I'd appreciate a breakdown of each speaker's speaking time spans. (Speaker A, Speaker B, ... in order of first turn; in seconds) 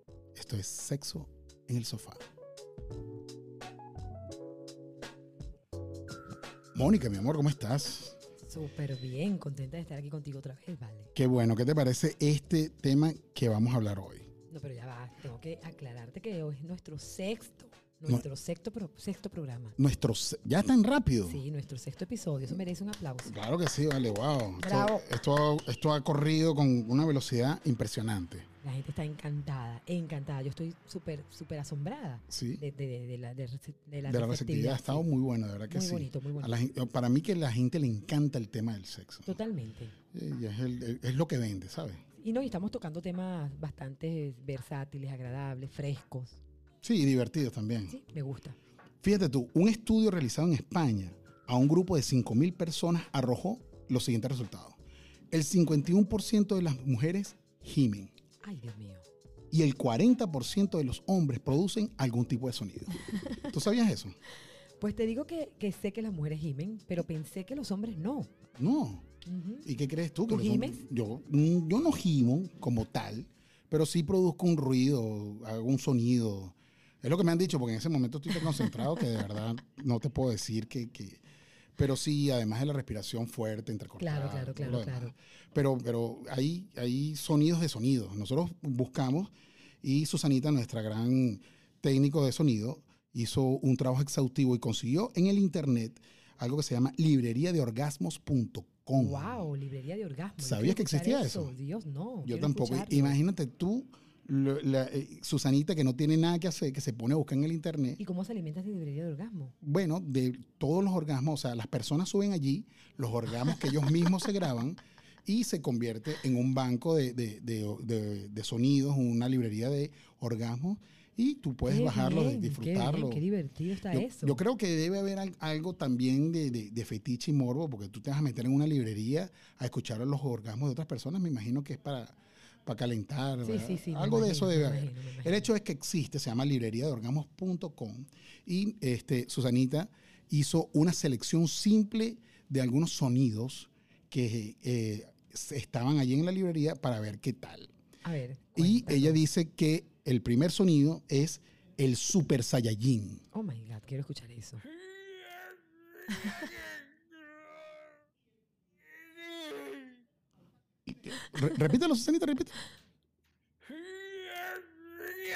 Speaker A: 0.3-2.2, 6.8-8.2, 11.2-14.3, 19.8-21.4, 23.3-28.5, 32.3-32.6, 34.1-39.4, 40.1-42.0, 46.8-48.0, 49.0-54.8, 55.3-58.1, 59.5-64.2, 68.6-69.1, 69.7-81.2, 81.8-99.5, 100.4-101.5, 102.2-108.0, 109.6-123.2, 123.9-147.7, 148.6-153.2, 160.9-162.6
Speaker B: 8.4-11.1, 14.5-19.8, 21.2-23.3, 24.6-25.1, 28.6-35.1, 35.7-36.6, 39.3-40.0, 42.2-46.4, 47.9-48.6, 58.4-59.0, 63.1-63.4, 64.8-68.3, 69.2-69.7, 70.3-70.8, 78.5-78.9, 84.0-85.1, 99.0-103.2, 108.0-109.5, 121.7-124.4, 133.4-135.5, 148.0-149.2, 153.3-154.6